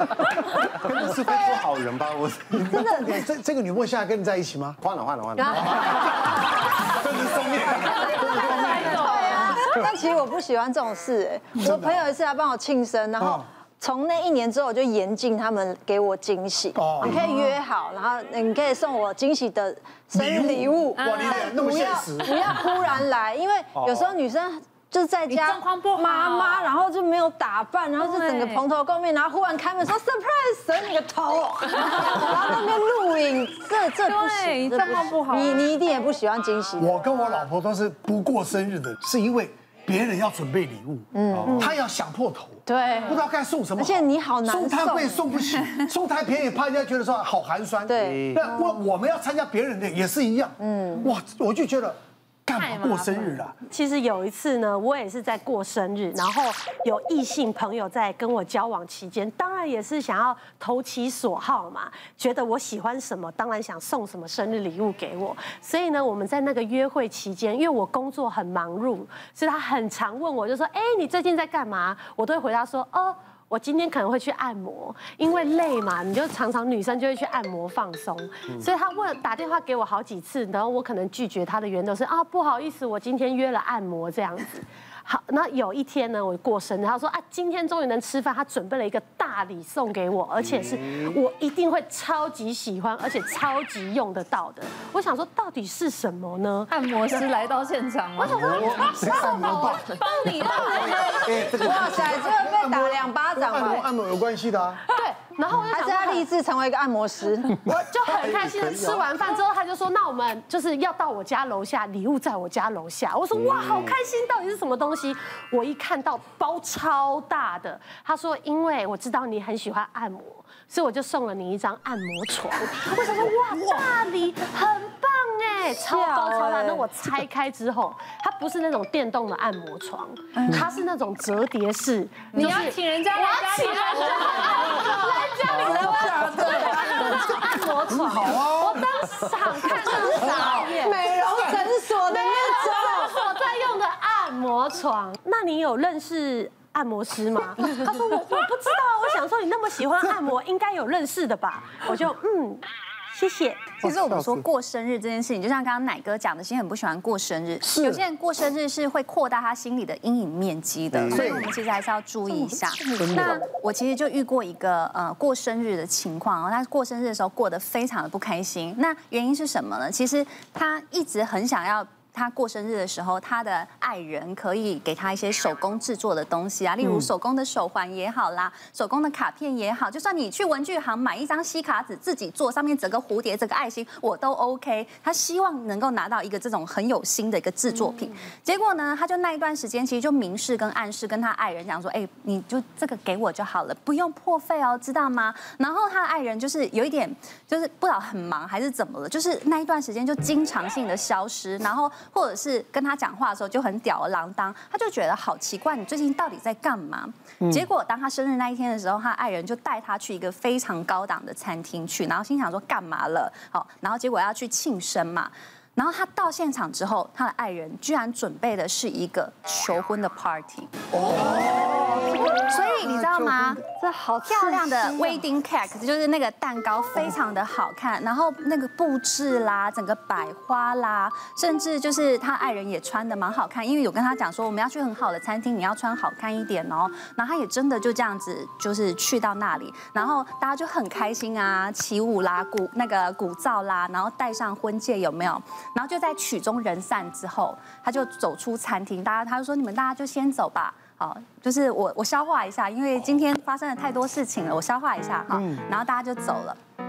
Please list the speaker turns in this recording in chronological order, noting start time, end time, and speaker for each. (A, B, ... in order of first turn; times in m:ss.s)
0:00.7-0:03.1 A
0:02.6-0:03.2 B
0:02.8-0:04.8 C
0:04.8-0:06.4 A
0:05.5-0:06.0 C
0:06.8-0:09.2 C
0:08.1-0:09.7 D
0:08.4-0:37.0 B
0:11.6-0:12.0 C
0:16.7-0:17.2 C
0:20.1-0:22.4 C
0:21.0-0:21.6 D
0:23.8-0:24.0 C
0:25.3-0:26.7 D
0:28.0-0:28.6 D
0:34.0-0:35.6 D
0:36.8-0:53.6 C
0:41.1-0:41.7 B
0:41.3-0:41.7 A
0:42.6-0:43.2 B
0:43.8-0:45.4 B
0:47.9-0:48.2 B
0:48.0-0:48.4 A
0:50.6-0:51.1 B
0:52.6-0:53.4 D
0:53.7-1:36.7 E
1:36.7-1:41.8 D
1:38.2-1:39.4 E
1:38.2-1:39.6 A
1:38.3-1:40.0 C
1:40.6-1:43.8 B
1:41.1-1:42.1 A
1:41.3-1:44.8 C
1:44.9-1:46.3 E
1:45.7-1:47.6 B
1:47.6-2:33.8 E
1:48.2-1:48.4 C
1:48.3-1:49.0 A
2:05.9-2:06.8 B
2:10.4-2:10.6 F
2:12.3-2:17.4 D
2:16.3-2:16.7 C
2:17.8-2:18.9 C
2:19.8-2:21.0 D
2:20.1-2:23.2 B
2:20.3-2:20.6 C
2:33.8-3:40.7 F
2:33.8-2:34.4 A
2:37.6-2:38.0 C
2:40.9-2:41.4 A
2:41.2-2:41.4 C
2:43.0-2:43.2 B
2:43.0-2:43.4 C
3:40.9-3:43.7 A
3:41.0-3:42.3 C
3:42.2-3:43.6 F
3:43.9-3:44.7 D
3:44.2-4:16.6 F
4:15.3-4:15.6 C